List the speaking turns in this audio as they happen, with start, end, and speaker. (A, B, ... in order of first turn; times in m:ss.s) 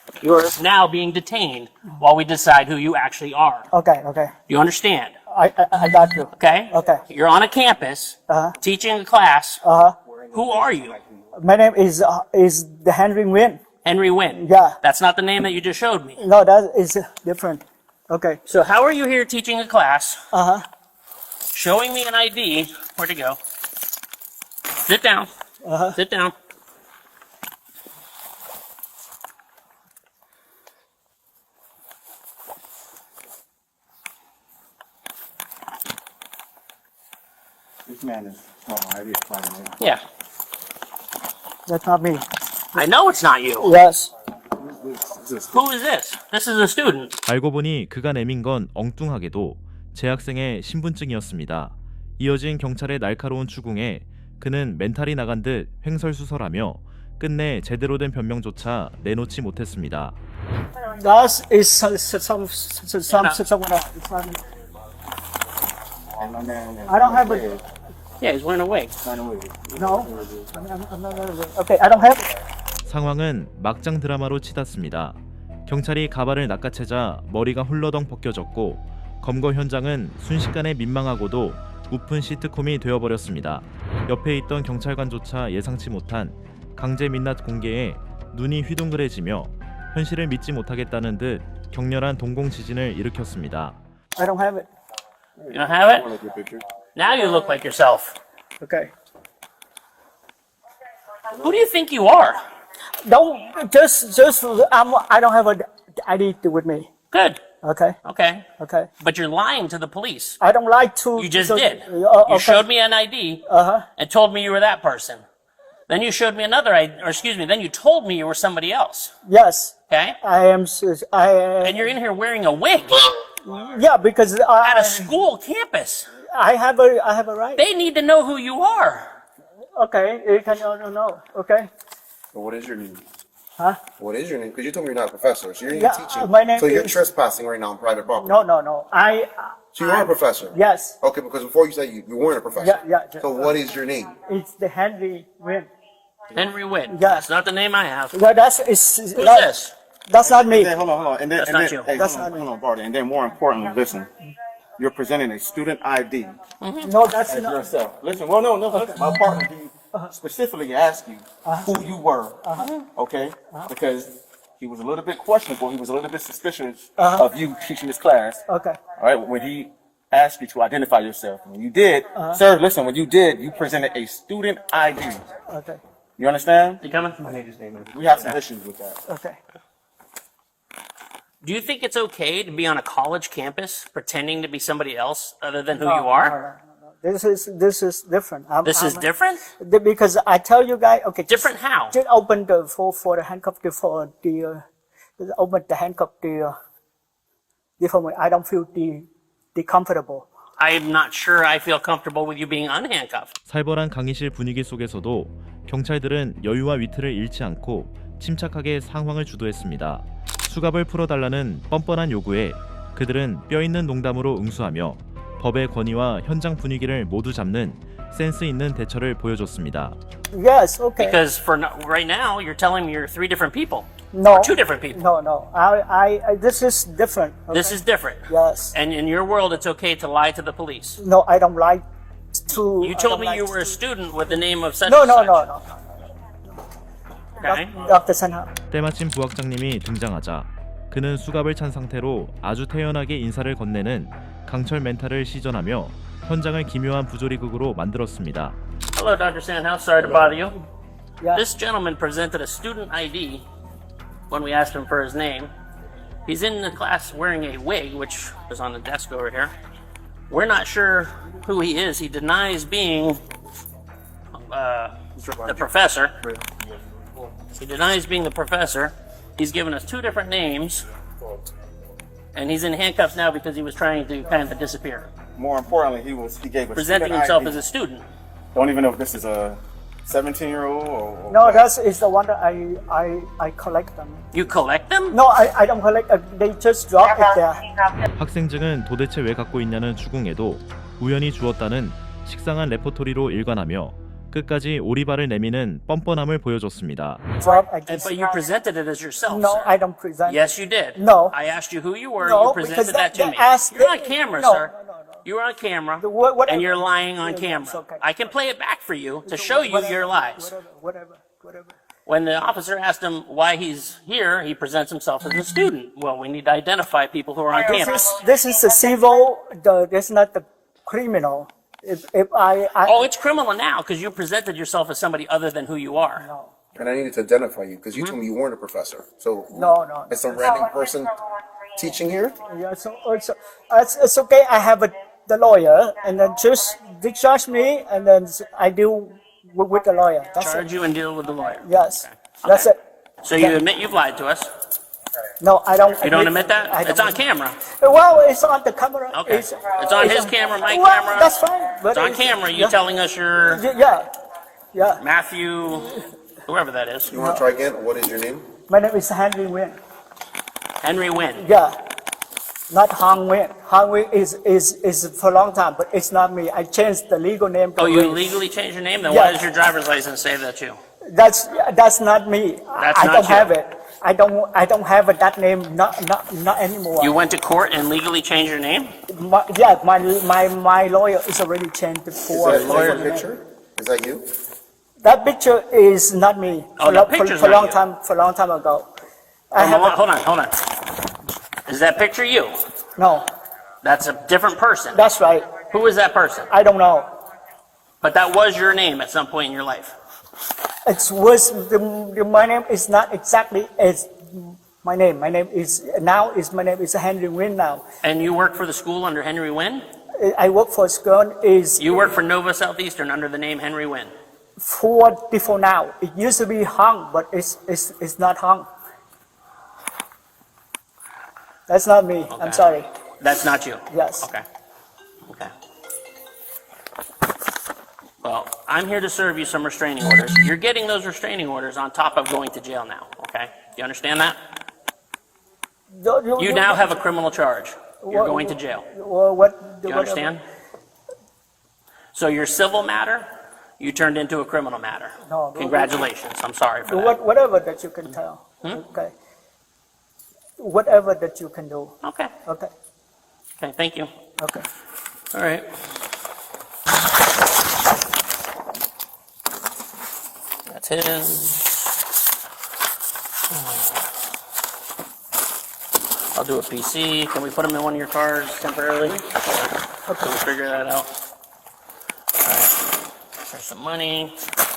0:00.2-0:03.7 A
0:03.7-0:04.3 B
0:04.5-0:05.1 A
0:05.3-0:07.0 B
0:06.4-0:09.6 A
0:08.3-0:08.6 B
0:09.6-0:10.0 B
0:10.1-0:11.3 C
0:10.3-0:11.0 A
0:11.3-0:13.6 B
0:13.8-0:16.2 A
0:14.3-0:14.8 B
0:16.2-0:18.4 B
0:18.4-0:20.2 A
0:20.3-0:20.7 B
0:21.5-0:23.4 A
0:24.8-0:25.3 A
0:25.6-0:26.0 B
0:25.9-0:26.3 A
0:37.9-0:39.8 C
0:41.7-0:42.9 B
0:42.7-0:43.8 A
0:43.6-0:44.1 B
0:44.6-0:45.6 C
0:45.5-0:47.2 A
0:47.2-1:00.2 D
1:00.8-1:04.4 B
1:03.1-1:03.4 A
1:06.2-1:07.6 C
1:06.9-1:07.4 B
1:08.2-1:08.9 A
1:09.0-1:10.5 C
1:09.8-1:12.3 B
1:12.9-1:33.8 D
1:34.2-1:34.7 B
1:35.4-1:36.6 C
1:35.5-1:36.1 A
1:36.9-1:38.2 A
1:38.6-1:38.9 B
1:41.3-1:42.4 A
1:43.0-1:46.9 B
1:47.1-1:47.4 A
1:47.6-1:48.0 B
1:48.0-1:48.4 A
1:48.6-1:48.9 B
1:49.0-1:50.4 A
1:50.4-1:52.7 B
1:51.2-1:53.4 A
1:53.4-1:53.9 B
1:54.0-1:55.2 A
1:55.9-1:59.1 A
1:59.2-2:01.9 B
1:59.9-2:00.2 A
2:01.6-2:03.2 A
2:03.4-2:05.1 B
2:04.6-2:06.1 A
2:06.2-2:07.6 B
2:07.6-2:09.1 A
2:09.7-2:11.7 B
2:12.3-2:13.0 E
2:14.0-2:18.5 E
2:15.7-2:17.0 B
2:18.1-2:21.0 B
2:19.7-2:24.2 E
2:22.6-2:23.4 B
2:24.2-2:25.7 B
2:26.3-2:28.1 A
2:26.9-2:27.3 B
2:28.1-2:29.5 B
2:29.1-2:29.8 A
2:30.1-2:30.7 B
2:30.2-2:34.1 C
2:31.4-2:31.9 A
2:31.9-2:32.5 B
2:34.8-2:36.4 C
2:36.6-2:36.9 A
2:36.8-2:37.6 B
2:37.2-2:48.4 C
2:41.4-2:41.7 B
2:42.6-2:42.9 A
2:47.0-2:47.3 B
2:48.5-2:48.8 B
2:49.0-2:55.2 C
2:52.1-2:52.4 B
2:55.5-2:55.8 B
2:56.2-2:56.8 C
2:56.8-2:57.2 A
2:57.4-2:59.0 C
2:59.0-2:59.4 B
3:01.4-3:06.4 A
3:05.8-3:09.1 B
3:08.6-3:09.5 A
3:09.6-3:14.6 B
3:11.3-3:12.0 A
3:15.2-3:16.6 B
3:17.8-3:20.3 B
3:20.6-3:23.3 A
3:23.5-3:40.0 D
3:40.3-3:41.2 B
3:41.0-3:45.0 A
3:44.1-3:48.8 B
3:47.5-3:51.0 A
3:51.0-3:53.8 B
3:52.8-3:55.5 A
3:54.8-3:55.7 B
3:57.4-3:57.8 A
3:57.4-3:58.5 B
3:58.7-4:08.6 D
4:08.9-4:10.6 A
4:11.3-4:13.5 A
4:14.3-4:15.5 A
4:16.2-4:19.5 A
4:20.3-4:23.2 A
4:24.3-4:26.2 A
4:25.2-4:25.5 C
4:27.5-4:30.9 A
4:32.4-4:35.1 A
4:35.4-4:37.6 C
4:36.8-4:38.0 A
4:38.5-4:41.7 C
4:41.3-4:44.3 B
4:44.3-4:45.2 A
4:45.1-4:47.7 B
4:48.1-4:57.4 D
4:57.4-4:58.1 B
4:57.9-5:10.6 A
4:59.3-5:00.4 B
5:00.9-5:01.4 B
5:02.2-5:05.2 B
5:06.0-5:08.1 B
5:09.3-5:11.8 B
5:12.0-5:18.2 A
5:17.6-5:22.9 B
5:22.8-5:26.3 A
5:26.2-5:26.5 B
5:26.8-5:31.2 E
5:29.5-5:30.1 B
5:31.8-5:32.4 E
5:32.4-5:40.7 B
5:40.4-5:44.5 A
5:41.6-5:42.8 B
5:43.4-5:43.6 B
5:45.4-5:52.8 B
5:46.0-5:47.6 A
5:49.1-5:53.6 A
5:53.5-5:54.1 B
5:54.7-5:55.0 B
5:55.0-5:57.1 A
5:57.1-5:58.5 E
5:57.1-5:57.5 B
5:58.6-5:59.8 B
6:00.8-6:01.5 A
6:01.4-6:01.8 B
6:02.7-6:08.4 B
6:07.8-6:10.8 A
6:09.1-6:09.4 B
6:11.1-6:17.1 B
6:12.8-6:13.5 A
6:17.0-6:18.9 A
6:19.1-6:23.3 B
6:22.2-6:24.2 E
6:22.5-6:23.0 C
6:22.5-6:23.0 A
6:25.0-6:28.9 B
6:26.8-6:27.8 A
6:29.5-6:30.0 B
6:29.5-6:30.6 A
6:31.7-6:32.6 A
6:33.0-6:33.3 B
6:33.8-6:36.5 A
6:34.9-6:35.6 B
6:36.5-6:37.1 B
6:38.0-6:39.9 A
6:40.9-6:47.8 B
6:48.0-6:49.8 A
6:50.1-6:51.8 B
6:51.8-6:54.1 A
6:54.6-6:58.7 B
7:01.7-7:02.9 B
7:02.3-7:04.4 A
7:03.9-7:04.3 B
7:08.2-7:14.4 A
7:15.9-7:17.0 B
7:16.4-7:18.9 A
7:18.0-7:20.3 B
7:19.8-7:20.4 A
7:22.1-7:23.3 A
7:23.8-7:27.2 A
7:25.2-7:26.1 B
7:26.8-7:29.1 B
7:28.0-7:28.8 A
7:30.6-7:32.7 B
7:32.0-7:32.3 A
7:33.6-7:34.1 A
7:34.4-7:34.6 B
7:35.3-7:35.6 A
7:40.7-7:41.7 A
7:46.4-7:51.1 A
7:52.4-7:52.7 A
7:53.5-7:54.4 A